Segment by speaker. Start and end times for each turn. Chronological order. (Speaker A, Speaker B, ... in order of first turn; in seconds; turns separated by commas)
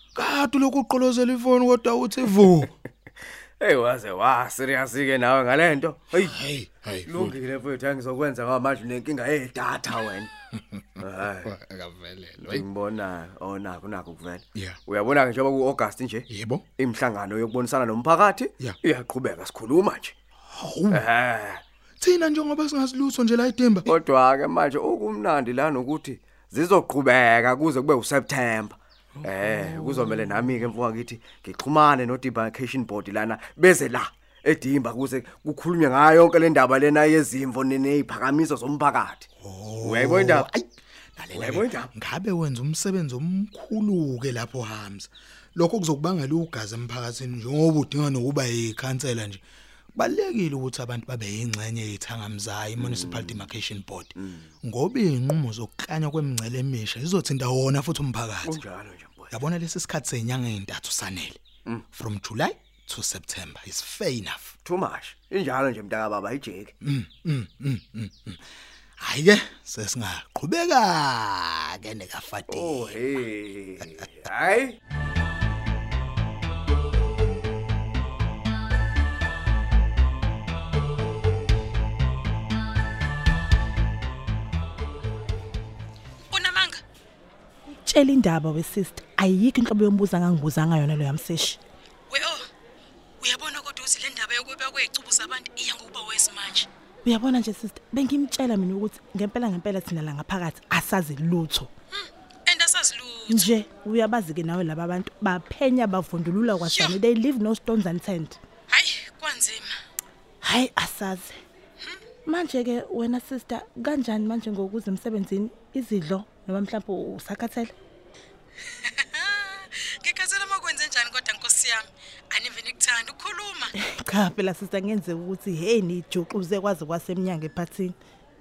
Speaker A: 0.1-2.7, Speaker B: 3.6-6.4, Speaker A: 6.2-7.4, Speaker B: 7.1-10.3, Speaker A: 10.7-12.6, Speaker B: 11.0-11.5, Speaker B: 12.5-16.3, Speaker A: 16.3-16.6, Speaker B: 16.8-20.1, Speaker A: 20.5-21.1, Speaker B: 20.9-21.6, Speaker A: 22.0-23.9, Speaker B: 23.9-39.3, Speaker A: 29.2-30.5, Speaker A: 39.4-49.4, Speaker B: 39.8-40.5, Speaker B: 41.3-41.9, Speaker A: 50.0-58.6, Speaker B: 52.8-53.5, Speaker B: 54.2-54.5, Speaker B: 58.4-59.4, Speaker A: 59.3-61.4, Speaker A: 61.9-64.6, Speaker B: 64.6-66.7, Speaker A: 66.8-68.4, Speaker A: 69.0-73.0, Speaker B: 72.5-74.8, Speaker C: 86.3-86.8, Speaker D: 87.8-91.6, Speaker C: 92.1-92.5, Speaker C: 93.2-96.7, Speaker D: 97.0-101.7, Speaker C: 101.9-103.5, Speaker D: 103.3-108.4, Speaker C: 106.7-107.0, Speaker C: 108.7-109.7, Speaker D: 110.4-111.4, Speaker D: 112.3-117.7, Speaker C: 118.8-123.7, Speaker D: 123.8-128.0